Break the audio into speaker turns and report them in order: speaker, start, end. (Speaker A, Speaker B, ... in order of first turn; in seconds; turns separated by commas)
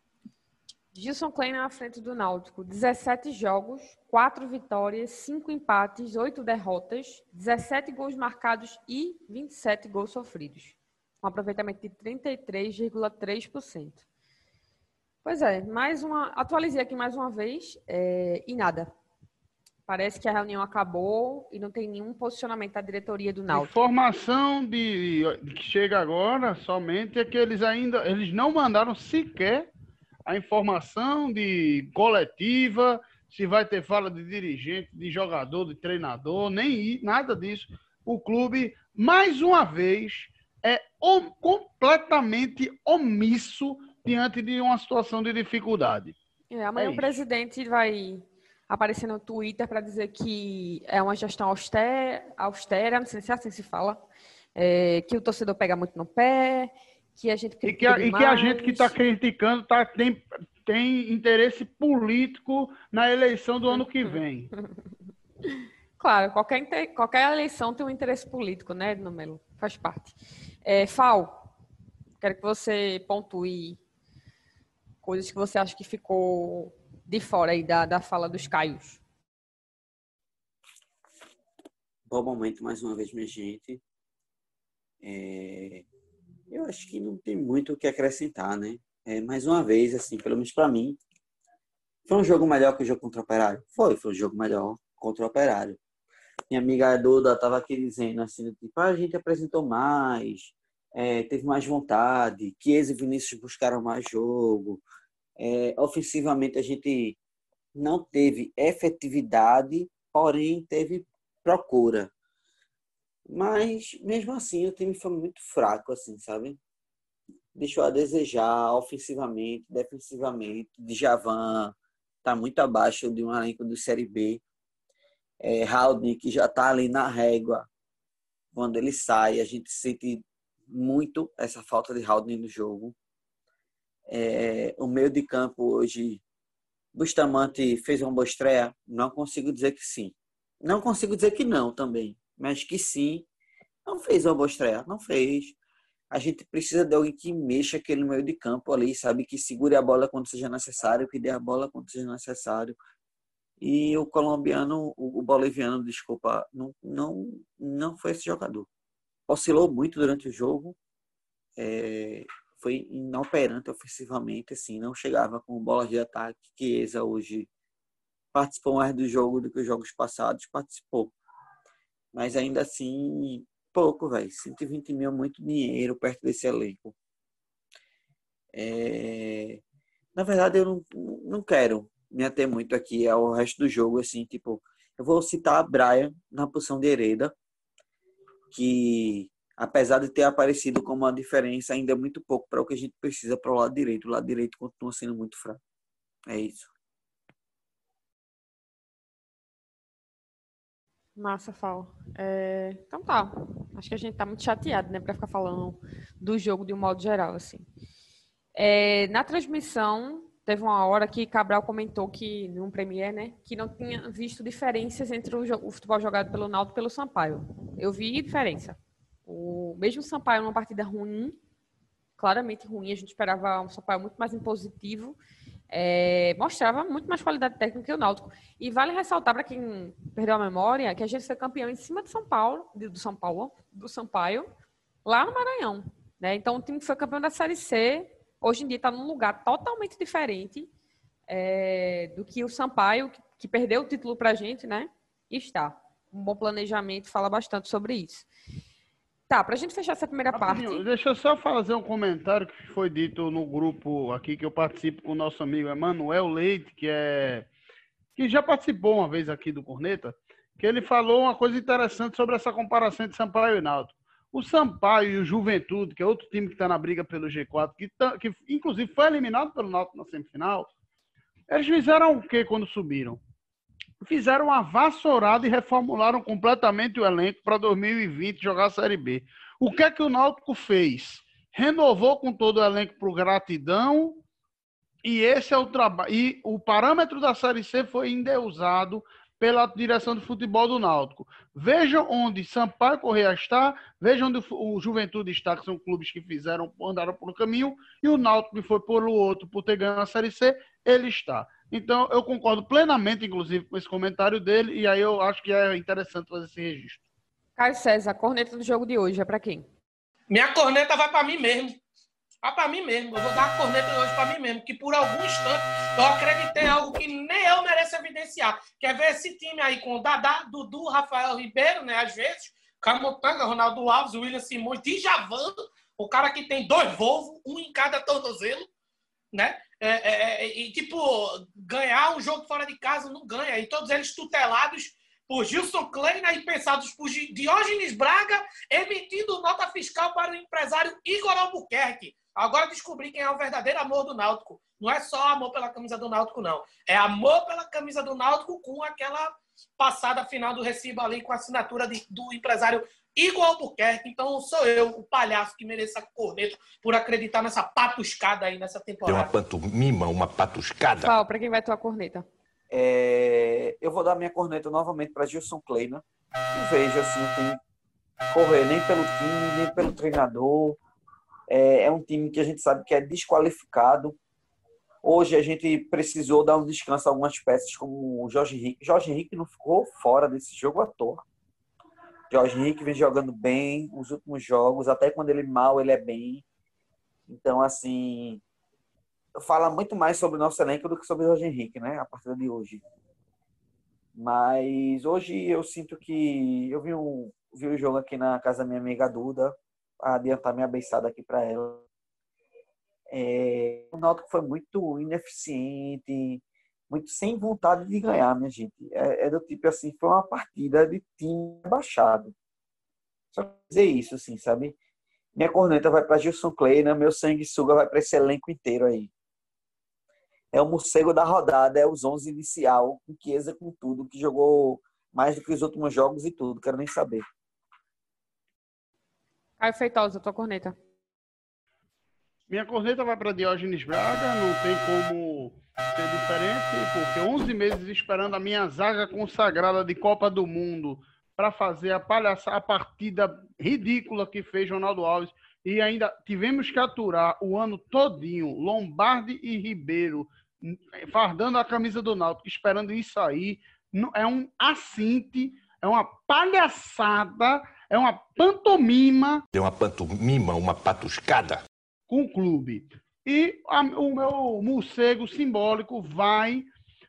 Speaker A: 0.9-14.0, Speaker A: 15.2-18.9, Speaker A: 19.9-23.7, Speaker B: 23.5-29.7, Speaker B: 30.2-46.1, Speaker A: 46.5-54.0, Speaker B: 46.8-47.2, Speaker A: 54.5-58.9, Speaker B: 57.6-64.5, Speaker A: 63.7-64.8, Speaker A: 65.5-71.5, Speaker A: 72.2-73.8, Speaker A: 75.0-79.0, Speaker C: 82.1-83.8, Speaker C: 85.0-85.8, Speaker C: 86.5-91.0, Speaker C: 92.1-95.8, Speaker C: 96.5-104.8, Speaker C: 105.4-107.2, Speaker C: 107.8-112.1, Speaker C: 113.3-116.6, Speaker C: 117.5-124.4, Speaker C: 125.4-127.7, Speaker C: 128.5-132.9, Speaker C: 134.1-136.2, Speaker C: 136.9-143.2, Speaker C: 143.8-145.6, Speaker C: 146.1-152.8, Speaker C: 153.6-158.7, Speaker C: 159.3-160.8, Speaker C: 161.6-167.5, Speaker C: 168.3-171.1, Speaker C: 172.1-176.9, Speaker C: 178.5-179.6, Speaker C: 180.1-187.3, Speaker C: 188.5-195.6, Speaker C: 196.3-196.7, Speaker A: 201.2-207.6, Speaker A: 208.6-221.3, Speaker A: 222.2-225.2, Speaker A: 225.7-234.5, Speaker A: 235.0-240.7, Speaker A: 241.3-248.3, Speaker A: 249.3-250.8, Speaker B: 250.3-257.5, Speaker B: 258.2-270.7, Speaker B: 271.5-273.2, Speaker B: 274.0-284.2, Speaker B: 285.0-307.0, Speaker A: 307.6-309.6, Speaker D: 310.3-311.8, Speaker D: 312.4-328.7, Speaker D: 329.3-359.3, Speaker E: 359.1-361.1, Speaker A: 361.0-362.2, Speaker C: 362.7-366.0, Speaker C: 366.5-367.6, Speaker C: 368.3-370.8, Speaker C: 371.5-374.2, Speaker C: 375.0-381.2, Speaker C: 382.3-386.4, Speaker C: 387.3-388.4, Speaker C: 389.4-392.8, Speaker C: 394.1-401.8, Speaker C: 403.1-412.3, Speaker C: 413.3-414.7, Speaker C: 415.4-419.1, Speaker C: 420.5-427.2, Speaker A: 429.6-430.7, Speaker B: 432.5-459.4, Speaker E: 459.5-461.6, Speaker B: 462.1-466.7